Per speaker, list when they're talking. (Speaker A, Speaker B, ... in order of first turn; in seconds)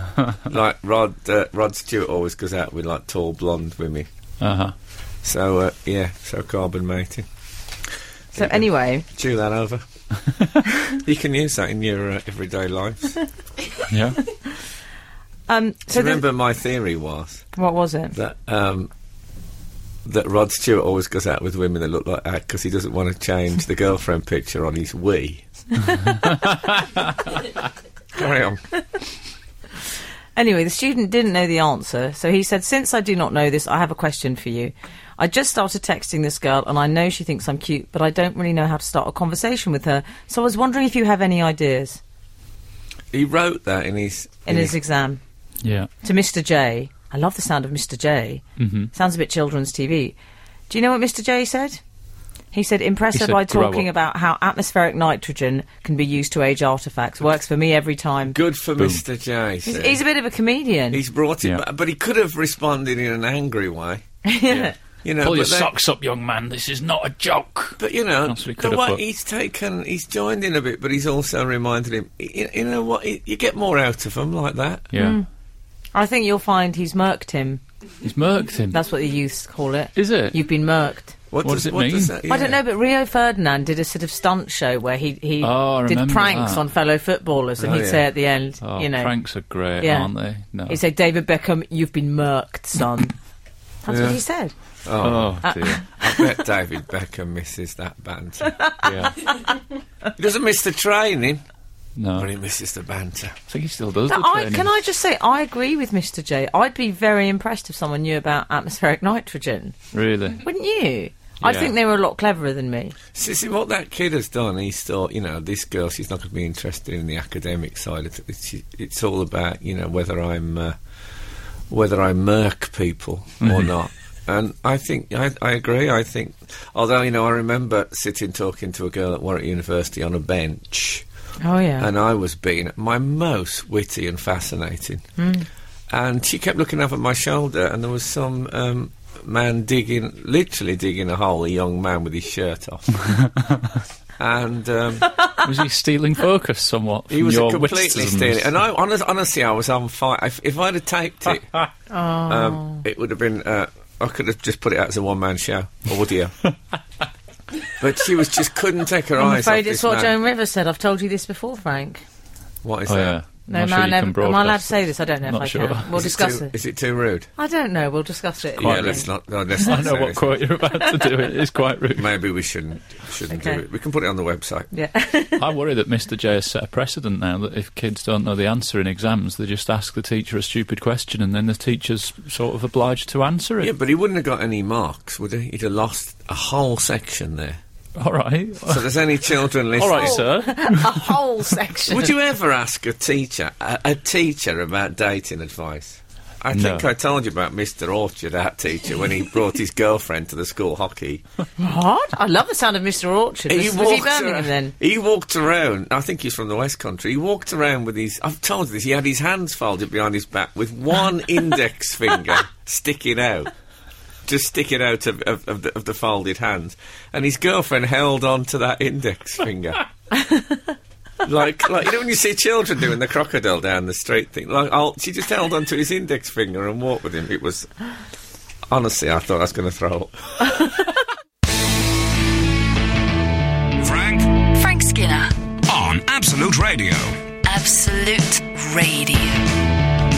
Speaker A: 0.3-4.1, 5.2-7.3, 8.3-9.8, 10.9-13.2, 15.9-17.5, 18.1-18.9, 20.0-25.4, 28.1-28.6, 43.1-44.7, 58.3-60.0, 60.9-64.0, 65.0-65.7, 67.8-74.9, 81.3-82.6, 87.6-88.0, 93.9-94.2, 94.8-98.5, 100.2-101.4, 102.1-103.3, 113.1-120.7, 121.7-131.0, 131.8-135.0, 135.9-143.0, 144.2-145.1, 147.1-151.6, 152.3-156.3, 157.8-160.1, 162.6-163.2, 165.9-167.3, 168.6-170.4, 171.9-174.7, 183.6-187.6, 188.7-190.2, 191.9-201.2, 203.5-213.5, 214.2-219.8, 221.2-227.7, 228.7-230.7
Speaker B: 4.4-4.7, 13.9-14.2, 45.6-45.9, 48.6-48.9, 53.1-53.9, 58.8-59.0, 64.5-69.0, 74.9-75.2, 78.0-78.8, 80.0-80.4, 81.4-82.2, 85.4-86.6, 88.6-90.8, 95.0-95.8, 98.8-99.2, 102.0-102.3, 103.5-104.8, 109.9-110.4, 111.4-111.7, 123.4-123.7, 145.4-148.5, 162.9-165.9, 168.6-172.1, 175.4-183.7, 188.0-188.9, 189.8-191.2, 196.5-196.9
Speaker C: 8.3-9.0, 15.5-16.2, 17.5-18.1, 30.4-42.0, 44.5-45.2, 46.0-50.1, 50.7-51.8, 52.5-58.4, 59.6-61.0, 64.2-64.7, 75.0-75.2, 75.9-77.6, 78.7-81.2, 82.3-89.1, 89.8-90.1, 90.7-93.1, 93.8-94.5, 95.4-96.3, 98.4-99.5, 104.1-109.8, 110.4-113.0, 131.4-131.9, 135.2-135.4, 151.9-152.8, 159.2-162.0, 163.5-166.5, 167.3-169.1, 173.3-173.6, 174.7-175.4, 189.9-192.1, 201.6-204.7, 220.2-220.6
Speaker D: 233.8-234.4, 235.7-237.2
Speaker E: 234.5-235.3, 237.4-239.5